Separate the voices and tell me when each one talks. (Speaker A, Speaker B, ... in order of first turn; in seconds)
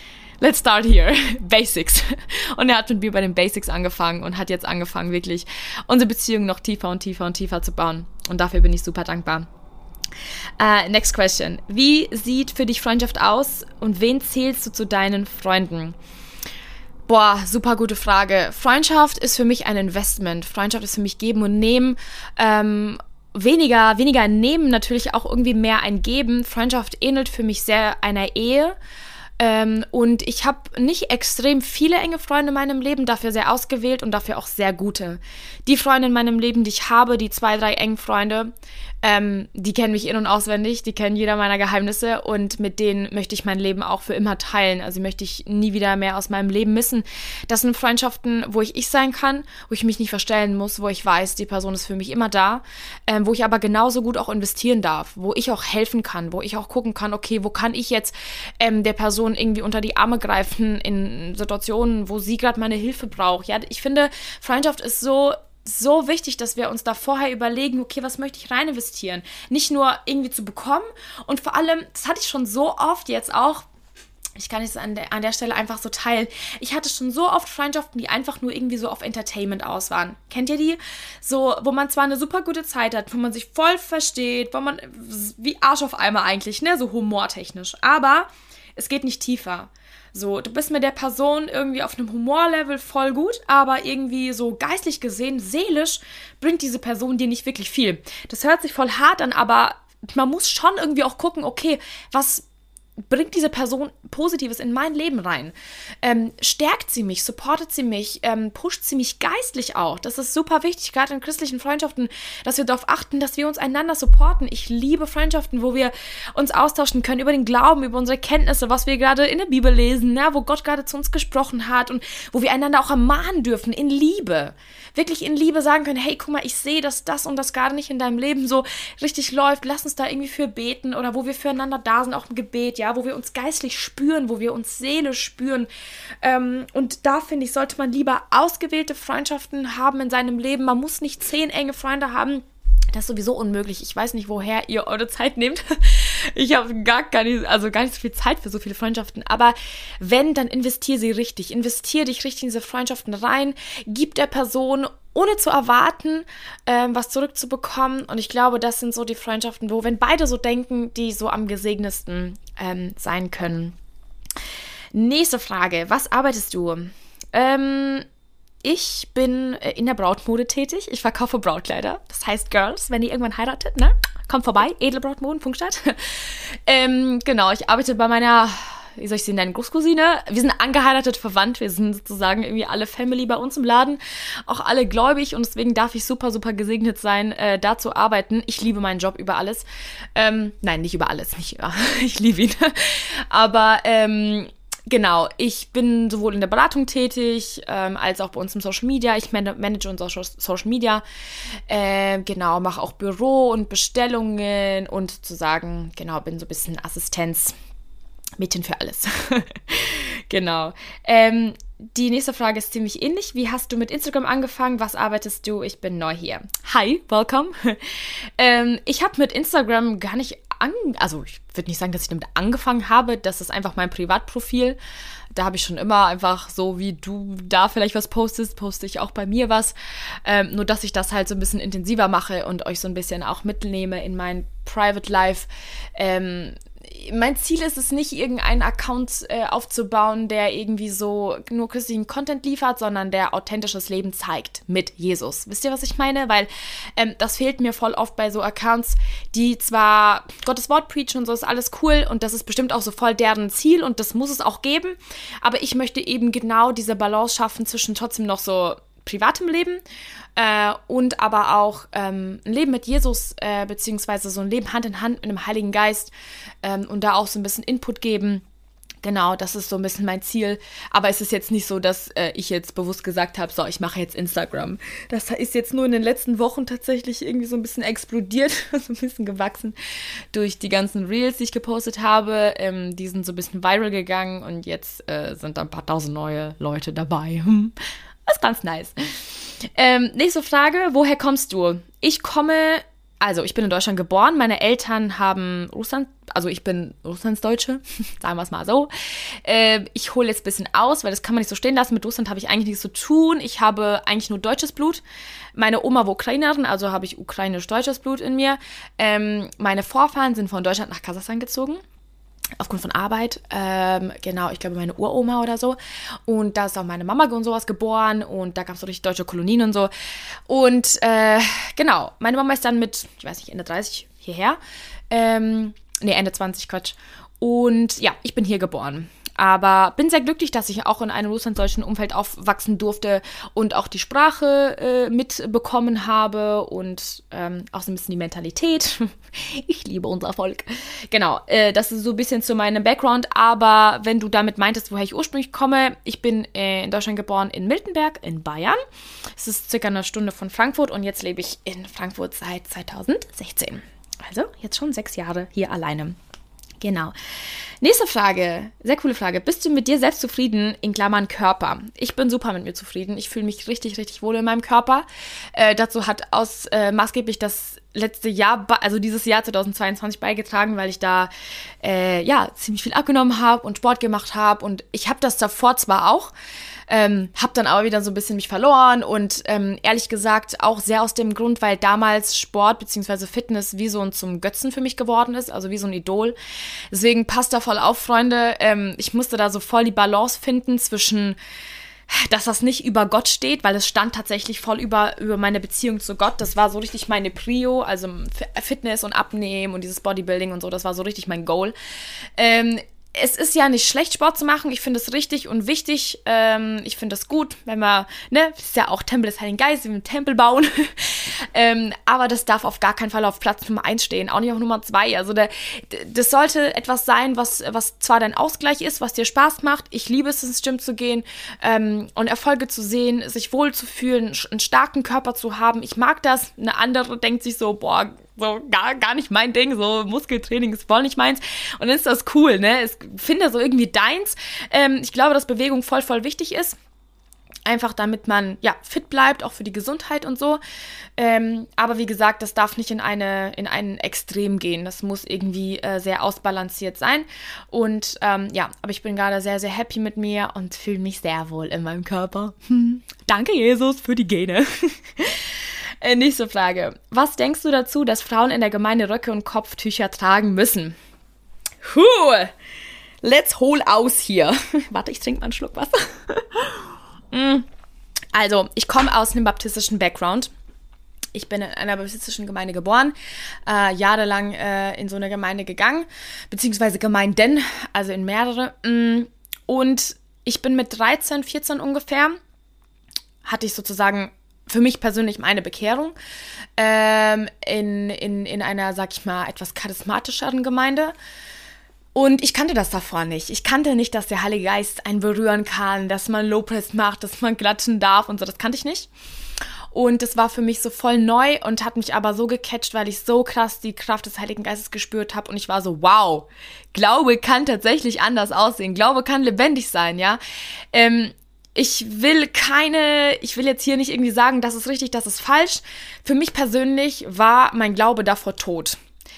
Speaker A: 0.4-9.5, 10.6-16.0, 17.1-28.8, 29.4-38.5, 39.0-73.7, 74.4-102.4, 103.1-135.7, 136.2-163.8, 164.9-168.1, 168.6-201.0, 201.7-207.5, 208.4-224.8, 225.3-259.8, 260.4-268.4, 269.0-279.8, 280.3-287.8, 288.3-289.2, 289.8-298.9, 299.4-305.0, 305.6-311.8, 312.6-319.9, 320.5-324.6, 325.1-348.8, 349.4-356.2, 356.8-357.1, 357.8-371.3, 371.8-376.3, 376.9-386.4, 386.9-391.4, 392.1-401.8, 402.4-436.8, 437.7-440.6, 441.2-455.5, 456.0-461.0, 461.8-462.5, 463.2-467.7, 468.3-470.5, 471.3-473.1, 473.7-482.4, 483.4-486.1, 486.8-491.1, 492.1-499.1, 499.9-510.4, 510.9-519.0